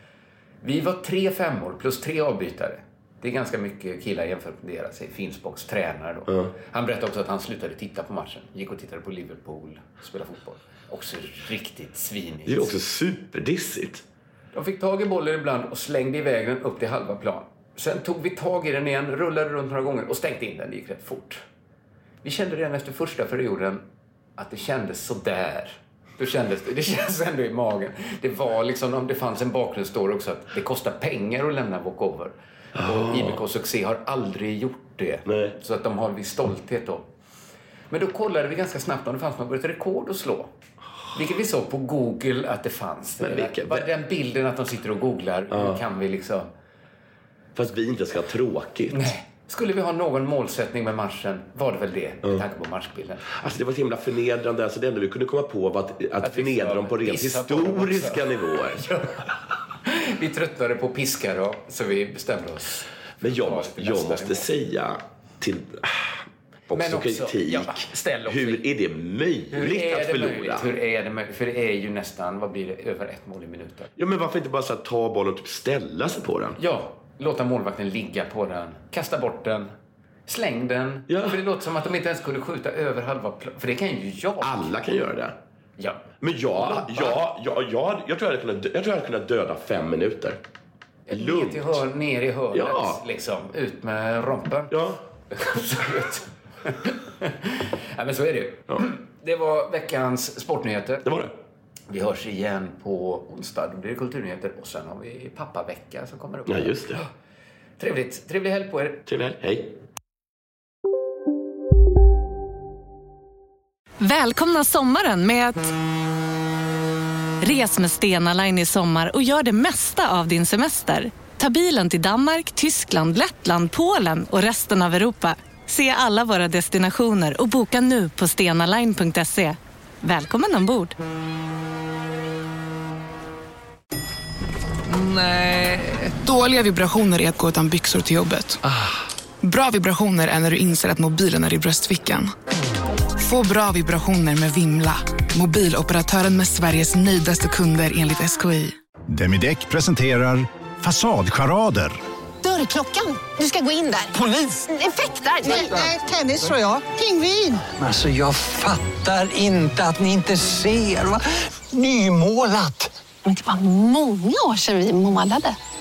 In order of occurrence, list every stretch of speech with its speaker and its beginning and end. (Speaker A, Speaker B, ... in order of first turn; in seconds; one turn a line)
Speaker A: 0.6-12.7
Speaker B: 12.4-14.0
Speaker A: 14.5-21.4
Speaker A: 22.2-23.8
Speaker A: 24.4-37.1
Speaker B: 32.8-33.4
Speaker B: 35.3-35.5
Speaker A: 37.9-40.5
Speaker A: 41.1-46.5
Speaker B: 43.2-43.9
Speaker B: 45.5-45.8
Speaker B: 47.5-49.1
Speaker A: 48.9-53.4
Speaker B: 53.3-58.8
Speaker A: 56.2-64.5
Speaker B: 63.2-70.7
Speaker A: 66.7-68.6
Speaker A: 69.5-73.9
Speaker B: 74.0-76.6
Speaker A: 76.6-79.7
Speaker A: 80.3-84.8
Speaker B: 81.1-81.4
Speaker B: 84.4-85.3
Speaker A: 85.8-87.2
Speaker B: 86.2-90.4
Speaker A: 91.1-94.7
Speaker B: 91.1-91.8
Speaker B: 92.5-93.0
Speaker B: 94.7-95.0
Speaker A: 95.3-101.1
Speaker B: 101.0-101.3
Speaker A: 101.9-107.0
Speaker B: 106.5-107.0
Speaker A: 107.8-109.0
Speaker B: 109.0-109.8
Speaker C: 114.0-115.7
Speaker C: 117.4-130.9
Speaker A: 134.9-136.1
Speaker D: 136.2-138.6
Speaker D: 139.4-142.3
Speaker D: 143.2-148.8
Speaker E: 149.1-152.0
Speaker F: 152.4-157.7
Speaker G: 157.8-161.2
Speaker G: 161.9-162.9